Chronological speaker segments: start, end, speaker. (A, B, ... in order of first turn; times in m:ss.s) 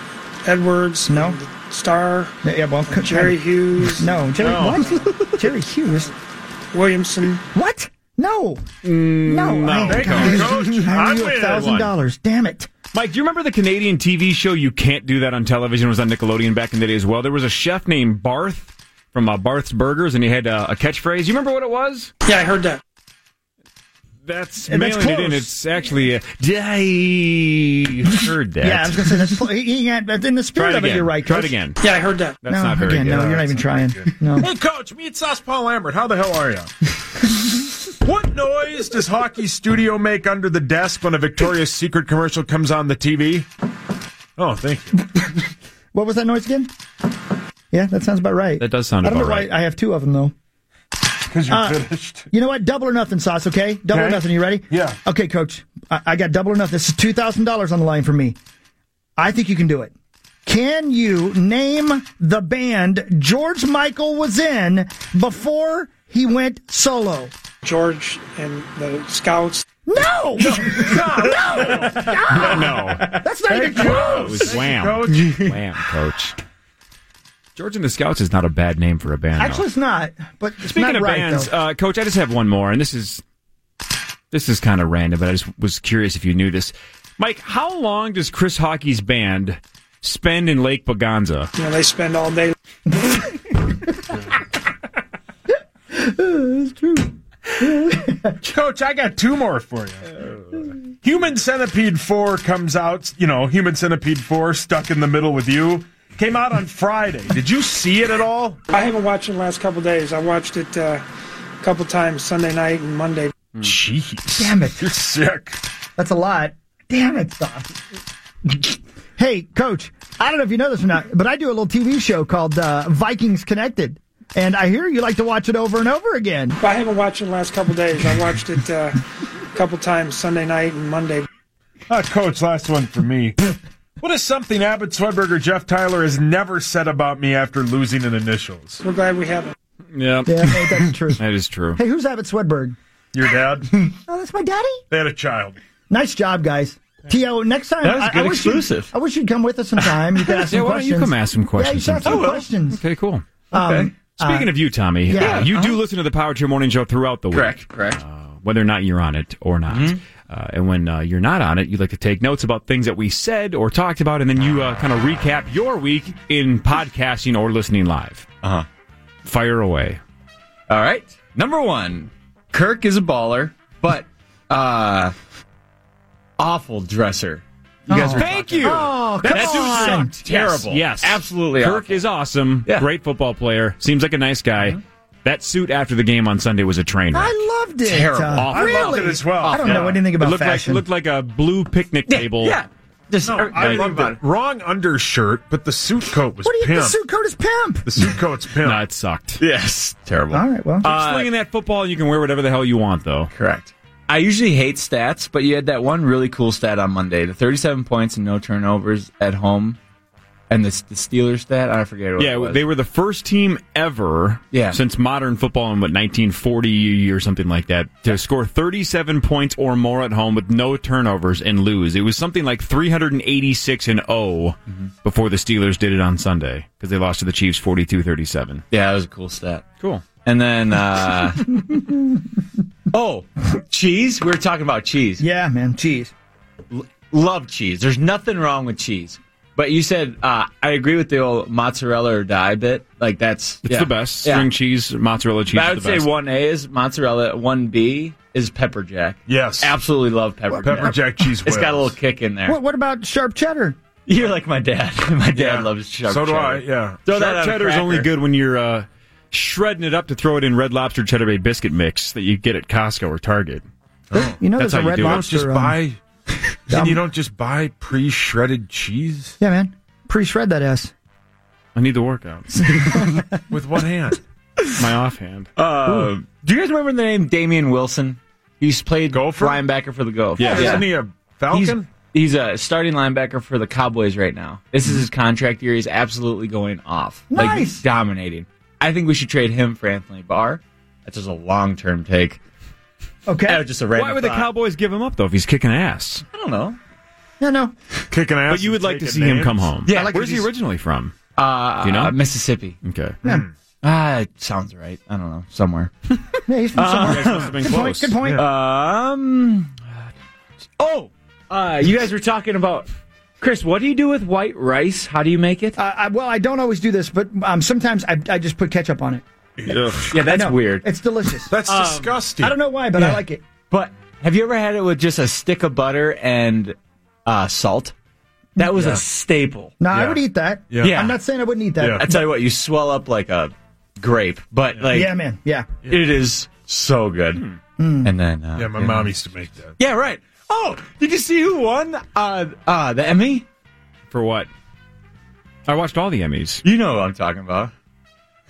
0:00.4-0:02.4 A
0:01.1-0:01.4 B
0:02.4-0:06.1 B
0:02.9-0:05.0 A
0:06.7-0:07.4 A
0:07.5-0:08.7 B
0:08.8-0:10.5 C
0:09.2-0:12.7 B
0:09.8-0:11.9 D
0:11.5-0:11.9 C
0:12.9-0:22.1 C
0:22.2-0:22.8 A
0:24.3-0:29.2 C
0:24.7-0:25.6 B
0:28.6-0:31.6 B
0:30.6-0:31.8 C
0:31.8-0:32.4 A
0:32.4-0:33.4 C
0:32.5-0:34.5 B
0:33.1-0:36.7 D
0:38.0-0:43.5 D
0:44.4-0:45.1 D
0:45.9-0:46.7 B
0:47.7-0:50.3 B
0:48.6-0:49.5 C
0:51.3-0:52.3 D
0:51.5-0:58.4 B
0:53.9-0:55.0 D
0:59.2-0:59.9 B
1:00.4-1:07.3 B
1:07.6-1:09.6 A
1:09.9-1:14.6 B
1:10.5-1:12.1 D
1:12.3-1:13.1 C
1:13.5-1:15.5 D
1:13.6-1:16.4 C
1:17.6-1:19.6 C
1:19.4-1:21.5 B
1:20.6-1:23.2 C
1:24.3-1:31.5 C
1:31.6-1:32.5 A
1:35.9-1:38.4 B
1:38.4-1:40.1 D
1:41.0-1:48.6 D
1:48.7-1:51.0 A
1:51.6-1:53.3 A
1:53.6-1:55.6 D
1:54.4-1:54.9 B
1:56.0-1:57.7 B
1:58.5-2:06.6 B
2:06.6-2:09.0 A
2:09.5-2:11.2 A
2:11.9-2:18.8 D
2:18.8-2:19.6 A
2:20.0-2:20.5 C
2:20.3-2:21.2 B
2:21.2-2:21.8 C
2:21.8-2:22.8 B
2:23.1-2:23.8 D
2:24.1-2:24.8 B
2:24.9-2:25.6 D
2:25.9-2:32.8 B
2:27.8-2:28.9 E
2:30.4-2:33.3 C
2:32.0-2:32.5 E
2:33.5-2:35.8 B
2:33.5-2:33.9 E
2:34.2-2:48.3 C
2:35.2-2:35.7 E
2:37.3-2:38.0 E
2:39.7-2:40.0 E
2:49.2-2:50.0 C
2:50.7-2:55.1 E
2:56.4-3:02.1 E
2:57.9-3:00.1 B
2:58.1-3:07.4 C
3:07.1-3:10.8 B
3:07.9-3:08.9 E
3:08.4-3:12.6 C
3:08.5-3:10.0 D
3:09.4-3:10.0 E
3:12.1-3:14.2 E
3:13.2-3:17.0 D
3:16.4-3:18.1 B
3:17.9-3:18.8 D
3:18.6-3:19.4 C
3:19.4-3:21.3 E
3:20.3-3:21.0 B
3:20.8-3:23.3 C
3:23.3-3:29.8 E
3:30.5-3:32.6 E
3:32.2-3:48.6 C
3:34.5-3:34.8 E
3:48.7-3:49.7 E
3:49.8-3:50.0 C
3:50.2-3:51.5 E
3:51.7-3:52.0 B
3:52.9-3:55.2 E
3:55.2-3:56.1 B
3:56.7-4:04.5 E
4:03.6-4:06.1 C
4:05.5-4:12.6 E
4:09.3-4:09.8 D
4:10.5-4:10.9 B
4:10.6-4:12.0 D
4:12.4-4:13.8 B
4:14.1-4:18.1 E
4:15.3-4:17.1 D
4:17.1-4:23.6 C
4:24.1-4:25.8 B
4:24.1-4:26.0 D
4:24.6-4:25.3 C
4:26.7-4:29.4 D
4:26.7-4:27.0 B
4:29.4-4:30.9 B
4:31.8-4:33.0 C
4:32.7-4:33.3 B
4:33.5-4:34.2 D
4:34.7-4:35.5 C
4:35.6-4:41.0 E
4:39.1-4:39.7 D
4:40.4-4:41.9 D
4:40.4-4:40.9 C
4:41.5-4:52.4 E
4:47.3-4:47.8 B
4:53.3-4:53.7 B
4:53.4-4:54.5 E
4:54.0-4:56.2 C
4:56.3-4:56.8 E
4:57.4-4:57.7 B
4:58.1-4:59.7 D
4:58.5-5:01.2 C
4:59.9-5:00.4 E
4:59.9-5:00.5 B
5:01.4-5:02.8 E
5:01.8-5:02.2 C
5:02.8-5:03.2 C
5:03.2-5:03.5 D
5:03.8-5:05.9 E
5:06.5-5:08.4 B
5:06.8-5:07.6 E
5:06.9-5:08.2 C
5:07.3-5:07.7 D
5:08.3-5:09.8 E
5:10.8-5:12.9 E
5:13.4-5:15.8 E
5:15.8-5:19.2 B
5:19.6-5:20.3 D
5:19.7-5:20.1 C
5:20.1-5:20.9 E
5:20.1-5:21.5 B
5:21.5-5:22.6 D
5:21.7-5:22.2 E
5:22.4-5:23.4 B
5:23.0-5:27.9 E
5:28.6-5:29.8 E
5:28.8-5:29.0 D
5:29.8-5:32.3 B
5:29.9-5:30.2 D
5:30.7-5:31.1 D
5:30.8-5:31.2 E
5:31.8-5:32.1 D
5:31.9-5:35.2 E
5:34.7-5:35.0 D
5:34.9-5:35.7 B
5:35.8-5:36.2 D
5:35.9-5:37.4 E
5:37.8-5:38.2 B
5:38.0-5:39.1 E
5:38.6-5:39.8 D
5:39.8-5:43.5 E
5:44.1-5:44.5 C
5:45.7-5:46.6 C
5:46.6-5:47.7 E